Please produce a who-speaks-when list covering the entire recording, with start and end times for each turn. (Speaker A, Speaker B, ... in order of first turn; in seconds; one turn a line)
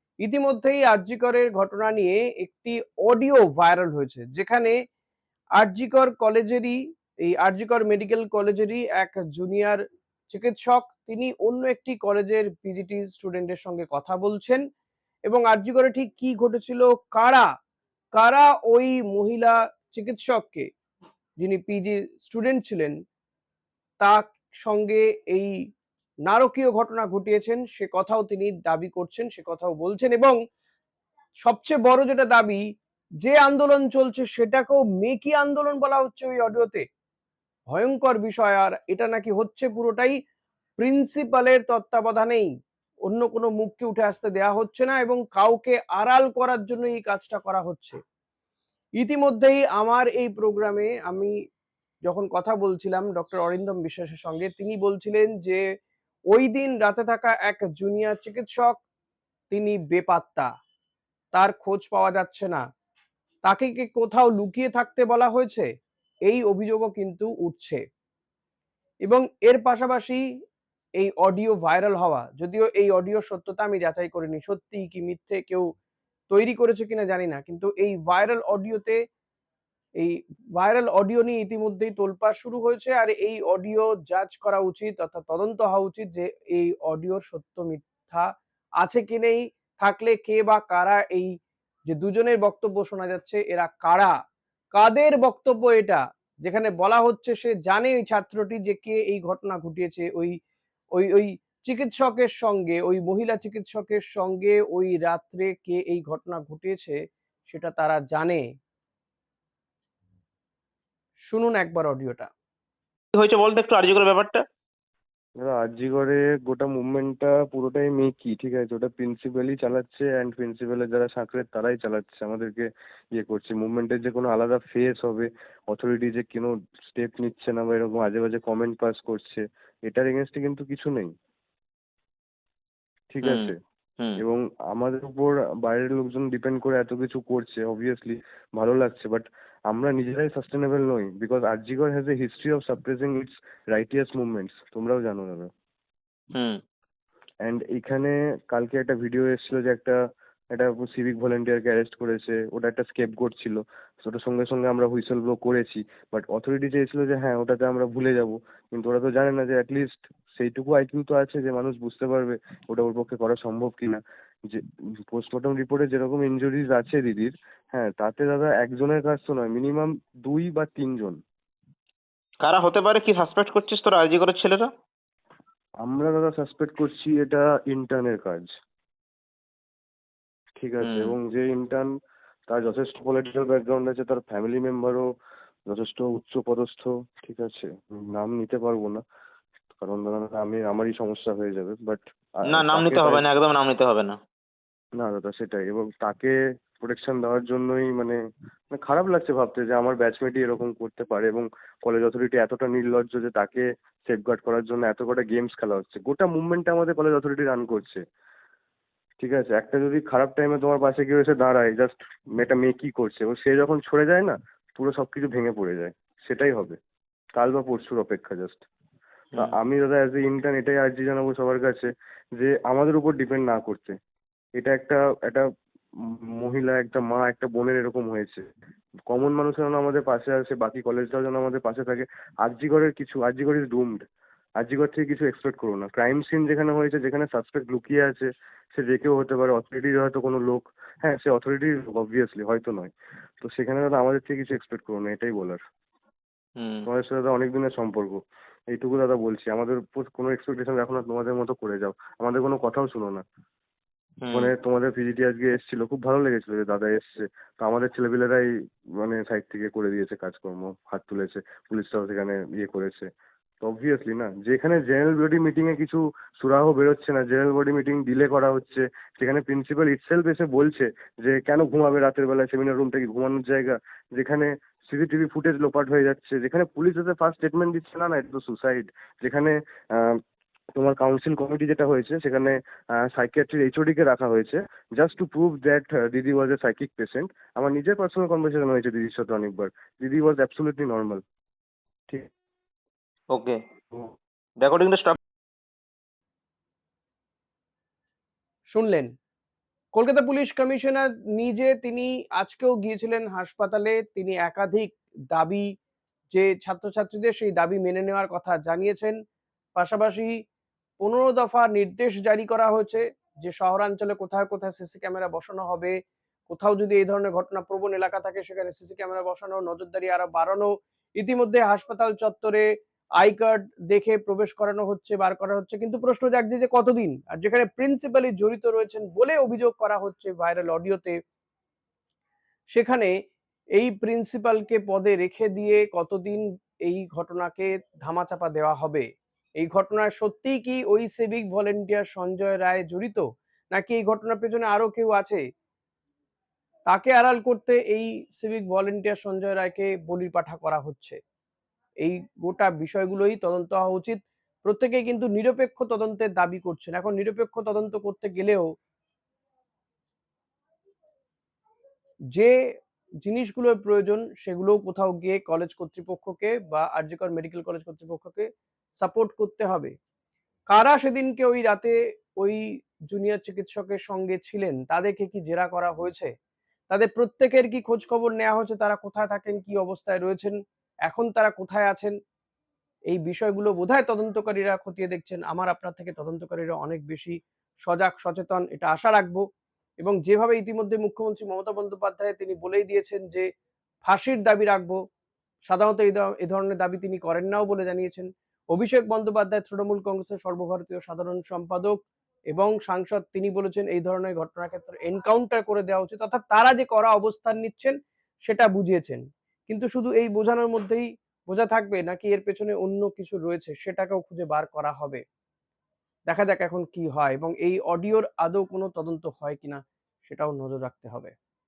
Speaker A: 0.2-4.7
Speaker A: 5.6-9.8
Speaker A: 10.3-14.6
Speaker A: 15.3-17.4
Speaker A: 18.1-20.6
Speaker A: 21.4-22.9
Speaker A: 24.0-25.5
Speaker A: 26.2-30.4
Speaker A: 31.4-32.6
Speaker A: 33.2-36.8
Speaker A: 37.7-40.1
Speaker A: 40.8-42.5
Speaker A: 43.1-48.0
Speaker A: 49.0-51.3
Speaker A: 52.0-55.6
Speaker A: 56.3-58.8
Speaker A: 59.5-60.5
Speaker A: 61.3-62.6
Speaker A: 63.4-65.6
Speaker A: 66.3-67.8
Speaker A: 69.0-70.2
Speaker A: 71.0-75.7
Speaker A: 76.3-79.0
Speaker A: 80.0-88.3
Speaker A: 88.8-91.3
Speaker A: 91.9-94.1
Speaker A: 94.7-100.3
Speaker A: 100.9-108.4
Speaker A: 111.2-112.3
Speaker B: 113.1-114.4
Speaker C: 115.4-131.1
Speaker C: 133.1-133.6
Speaker B: 133.2-134.2
Speaker C: 134.2-145.5
Speaker B: 146.3-146.6
Speaker C: 147.4-150.0
Speaker C: 150.5-171.2
Speaker B: 172.4-174.7
Speaker C: 175.8-178.5
Speaker C: 180.6-181.9
Speaker B: 180.8-181.1
Speaker C: 182.5-185.1
Speaker C: 185.7-189.0
Speaker C: 189.8-193.2
Speaker B: 192.5-194.1
Speaker C: 195.0-198.2
Speaker C: 198.7-208.0
Speaker C: 209.2-216.8
Speaker C: 217.3-218.6
Speaker C: 219.3-223.9
Speaker C: 224.6-225.5
Speaker C: 226.0-228.4
Speaker C: 229.1-234.0
Speaker C: 234.6-245.6
Speaker B: 246.6-246.8
Speaker C: 246.8-248.2
Speaker C: 248.7-253.2
Speaker B: 254.2-254.5
Speaker C: 254.3-263.1
Speaker C: 263.6-280.2
Speaker C: 280.8-291.2
Speaker B: 293.3-293.6
Speaker B: 294.6-295.1
Speaker A: 298.7-299.1
Speaker A: 299.9-305.7
Speaker A: 306.3-309.1
Speaker A: 309.8-310.3
Speaker A: 311.0-315.9
Speaker A: 316.5-322.6
Speaker A: 323.2-331.1
Speaker A: 332.7-333.1
Speaker A: 333.8-339.0
Speaker A: 339.6-345.4
Speaker A: 346.9-351.2
Speaker A: 352.0-358.7
Speaker A: 363.2-368.5
Speaker A: 369.0-369.9
Speaker A: 370.7-376.3
Speaker A: 376.9-380.5
Speaker A: 381.1-382.1
Speaker A: 383.1-389.4
Speaker A: 390.0-393.4
Speaker A: 394.0-394.9
Speaker A: 395.7-402.0
Speaker A: 402.5-415.2
Speaker A: 416.3-421.3